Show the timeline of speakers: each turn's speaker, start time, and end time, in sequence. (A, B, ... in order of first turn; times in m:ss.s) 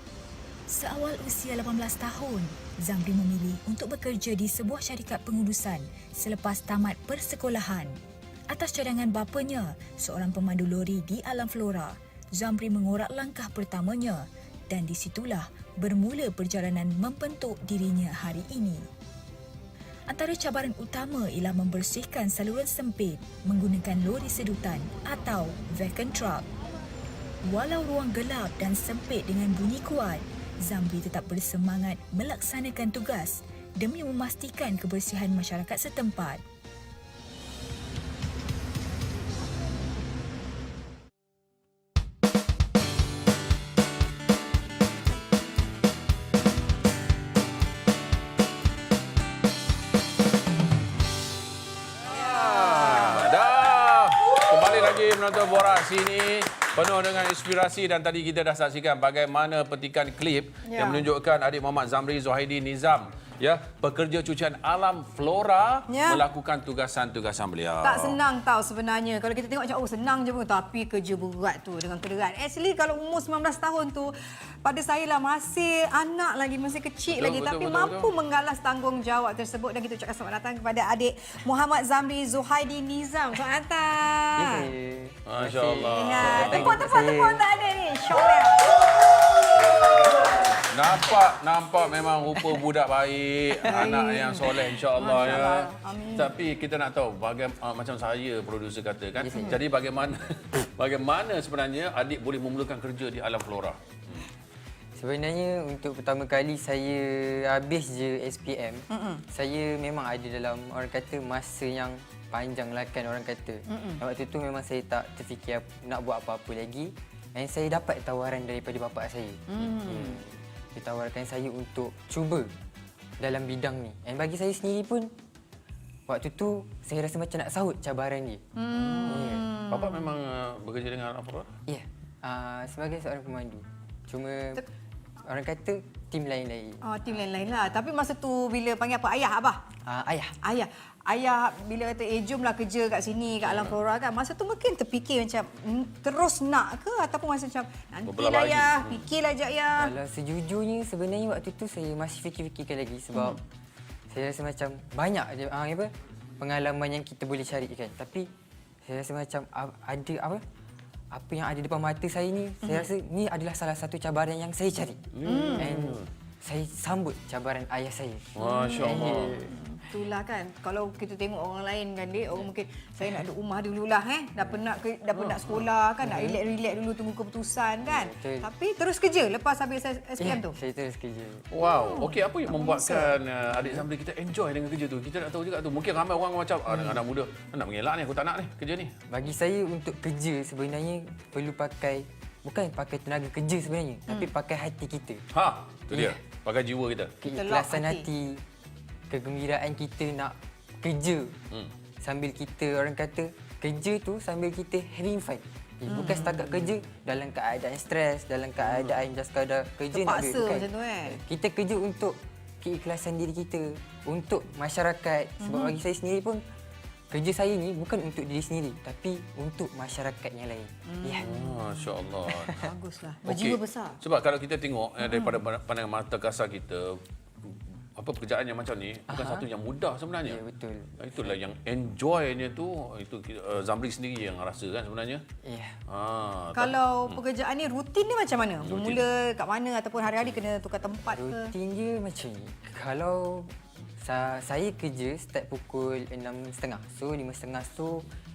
0:00.7-0:08.0 A
0:08.5-0:18.9 A
0:20.1-0:26.5 A
0:27.4-0:36.4 A
0:52.1-1:08.2 B
1:00.6-1:01.0 C
1:05.9-1:06.2 C
1:07.8-1:24.7 C
1:17.1-1:18.1 B
1:24.4-1:27.4 D
1:25.2-1:26.8 B
1:25.9-1:28.8 C
1:30.7-1:44.2 B
1:33.6-1:36.3 C
1:39.2-1:39.6 D
1:45.0-2:02.5 D
1:48.9-1:49.2 C
1:53.7-1:54.0 C
1:59.5-2:00.2 C
2:03.2-2:05.1 D
2:06.1-2:08.4 D
2:08.6-2:10.1 C
2:08.7-2:11.5 B
2:09.0-2:09.5 D
2:11.7-2:14.6 D
2:15.2-2:17.0 D
2:16.8-2:19.6 C
2:19.8-2:20.4 D
2:20.4-2:29.9 C
2:23.4-2:23.8 B
2:28.0-2:29.1 B
2:29.8-2:33.4 D
2:33.1-2:33.4 C
2:34.1-2:38.3 D
2:38.9-2:40.4 D
2:41.1-2:49.6 D
2:42.6-2:42.9 C
2:45.1-2:46.1 B
2:45.2-2:45.7 C
2:48.3-2:49.4 B
2:48.4-3:00.6 C
2:56.0-2:56.4 D
2:57.8-2:58.5 D
3:00.2-3:01.6 D
3:01.5-3:08.9 B
3:01.6-3:03.2 C
3:03.5-3:03.8 D
3:09.1-3:15.3 D
3:15.3-3:17.2 B
3:15.9-3:16.2 D
3:17.2-3:18.4 D
3:17.3-3:18.1 C
3:19.1-3:21.4 D
3:22.0-3:36.4 D
3:25.9-3:26.6 C
3:29.9-3:31.2 C
3:35.4-3:35.8 C
3:37.1-3:41.3 D
3:40.9-3:41.9 C
3:41.2-3:42.6 B
3:42.2-3:42.6 D
3:42.5-3:44.0 C
3:43.2-3:50.4 B
3:45.0-3:45.3 C
3:49.1-3:49.5 D
3:50.2-3:51.4 D
3:51.0-3:55.2 B
3:55.4-3:55.8 D
3:55.9-3:57.2 B
3:56.5-4:01.5 C
3:58.6-3:59.1 B
4:01.1-4:08.1 D